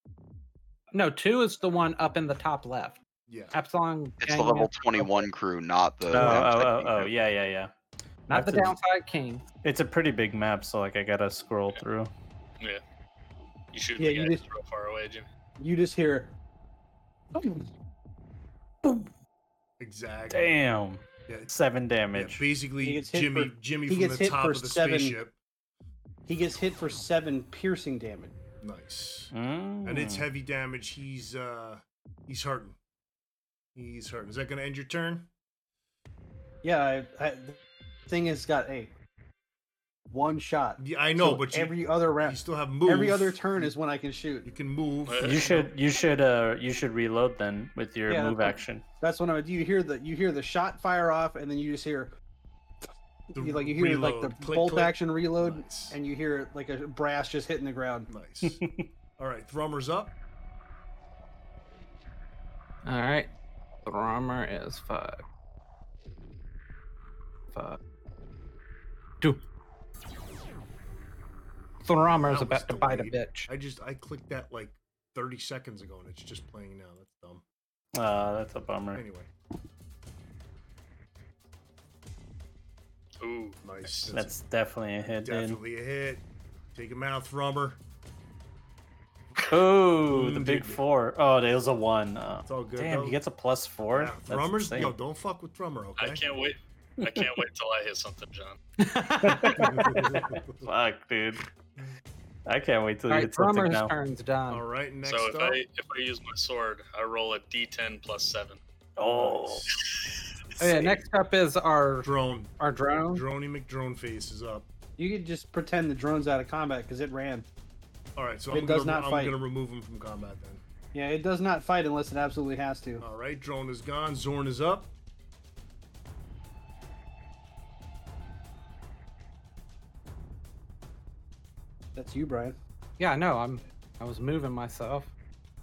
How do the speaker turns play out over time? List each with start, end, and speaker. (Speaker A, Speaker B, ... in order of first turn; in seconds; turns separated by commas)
Speaker A: 0.9-3.0, Speaker B: 3.3-3.5, Speaker A: 3.5-5.2, Speaker C: 4.2-7.1, Speaker D: 6.1-7.7, Speaker A: 6.2-6.4, Speaker A: 8.3-9.4, Speaker D: 8.3-8.7, Speaker D: 9.6-12.1, Speaker E: 13.7-15.3, Speaker F: 14.0-14.4, Speaker F: 15.6-16.3, Speaker F: 17.4-17.6, Speaker D: 18.8-19.1, Speaker B: 19.8-20.5, Speaker D: 20.3-22.4, Speaker B: 21.3-21.5, Speaker B: 22.1-25.4, Speaker F: 22.8-25.2, Speaker F: 26.3-28.3, Speaker B: 28.6-29.3, Speaker D: 29.3-30.2, Speaker B: 29.8-32.8, Speaker B: 33.7-35.3, Speaker F: 36.6-38.9, Speaker F: 40.1-44.5, Speaker B: 40.8-43.8, Speaker B: 44.4-45.5, Speaker E: 45.1-45.7, Speaker D: 45.2-48.8, Speaker F: 48.1-52.1, Speaker F: 53.3-58.1, Speaker B: 53.3-56.0, Speaker B: 58.1-58.6, Speaker D: 58.5-58.8, Speaker B: 59.2-60.2, Speaker A: 62.8-63.3, Speaker A: 63.8-65.2, Speaker A: 67.5-67.8, Speaker A: 71.8-73.5, Speaker B: 72.2-77.4, Speaker D: 77.9-79.0, Speaker B: 78.9-79.3, Speaker E: 83.2-84.1, Speaker B: 83.6-84.3, Speaker D: 84.1-85.6, Speaker B: 85.0-87.8, Speaker D: 89.5-94.9, Speaker B: 90.0-90.8, Speaker B: 92.5-93.2, Speaker B: 93.9-96.2, Speaker E: 96.0-98.6, Speaker D: 97.0-97.3, Speaker A: 98.8-100.0, Speaker D: 99.2-101.4, Speaker B: 99.6-100.7, Speaker D: 102.5-103.9, Speaker A: 103.1-104.6, Speaker B: 104.5-105.6, Speaker E: 105.0-108.6, Speaker D: 109.0-109.7, Speaker B: 109.0-109.7, Speaker E: 109.7-110.2, Speaker A: 110.6-113.2, Speaker B: 112.0-114.7, Speaker F: 115.0-117.5, Speaker B: 118.2-120.6, Speaker F: 118.5-119.3, Speaker F: 120.9-123.0, Speaker B: 123.0-124.9, Speaker F: 131.9-132.6, Speaker A: 133.0-135.1